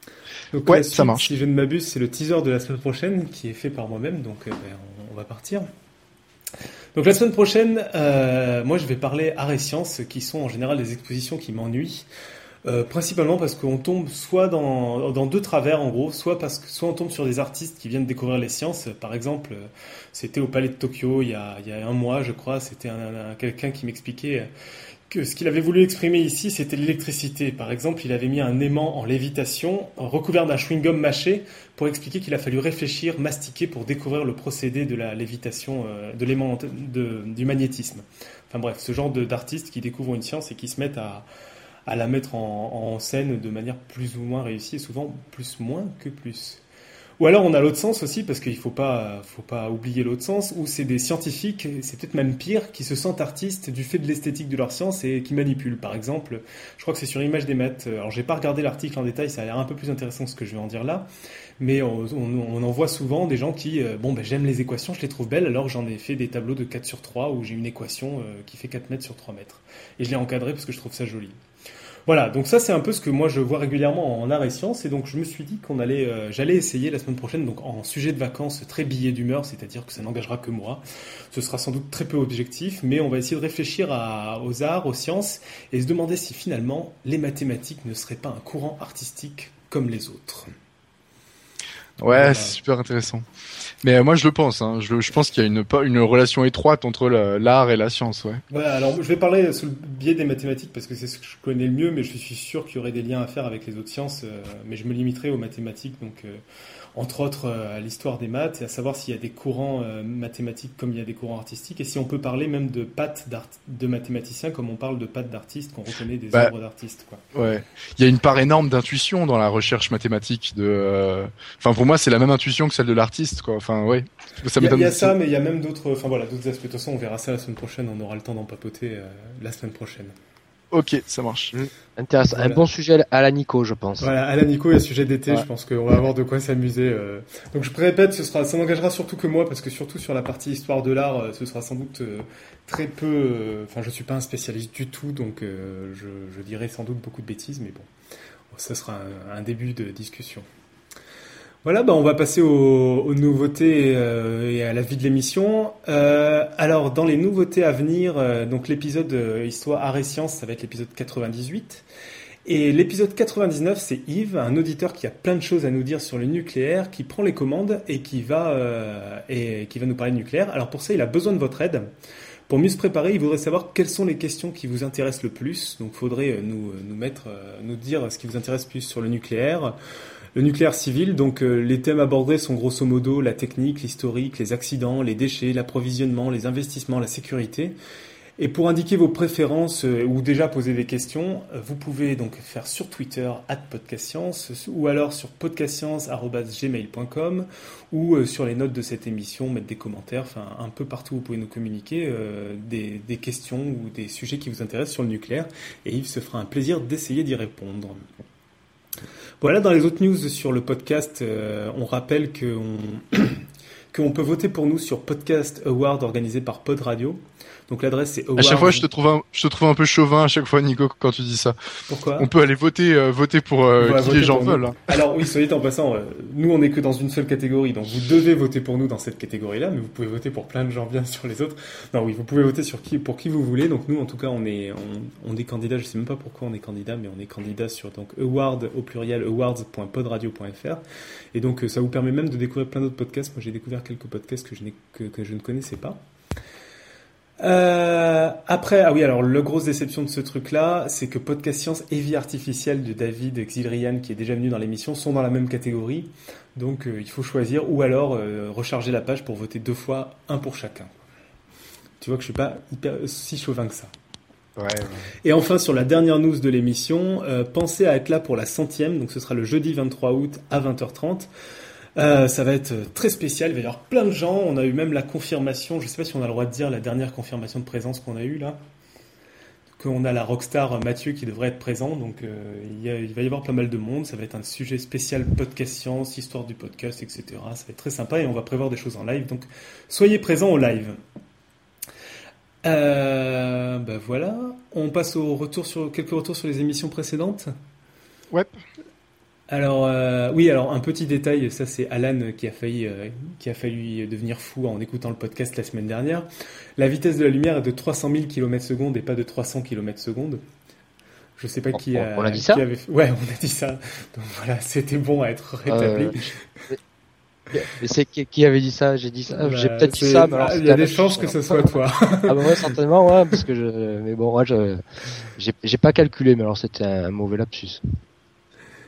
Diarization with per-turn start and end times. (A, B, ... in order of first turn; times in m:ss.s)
0:00.5-0:05.7 A
0:00.6-0:01.3 B
0:07.0-0:12.0 A
0:12.6-0:24.5 A
0:25.1-0:41.3 A
0:41.8-0:46.6 A
0:47.2-1:01.1 A
1:01.6-1:11.4 A
1:12.1-1:30.5 A
1:32.0-1:33.2 B
1:32.1-1:32.6 A
1:33.8-1:38.4 B
1:38.5-1:46.4 A
1:47.0-1:57.2 A
1:57.3-2:05.1 B
2:04.6-2:10.1 A
2:10.7-2:11.5 B
2:11.5-2:14.1 C
2:12.3-2:12.6 A
2:14.0-2:27.9 A
2:28.5-2:30.5 A
2:31.6-2:41.8 A
2:42.4-2:51.9 A
2:52.5-2:59.7 A
3:00.4-3:07.8 A
3:08.4-3:28.0 A
3:29.4-3:38.9 A
3:38.4-3:41.6 B
3:41.9-3:42.3 A
3:42.2-3:45.0 B
3:43.8-4:00.8 A
4:01.3-4:06.0 A
4:07.4-4:21.0 A
4:22.0-4:23.9 A
4:24.6-4:25.1 B
4:25.2-4:31.3 A
4:32.0-4:38.6 A
4:39.8-4:51.0 A
4:52.6-4:57.5 A
4:59.5-5:10.4 A
5:11.4-5:16.4 A
5:11.7-5:12.6 C
5:15.7-5:16.8 C
5:17.5-5:21.8 C
5:19.3-5:22.7 A
5:22.3-5:24.8 C
5:25.3-5:27.8 C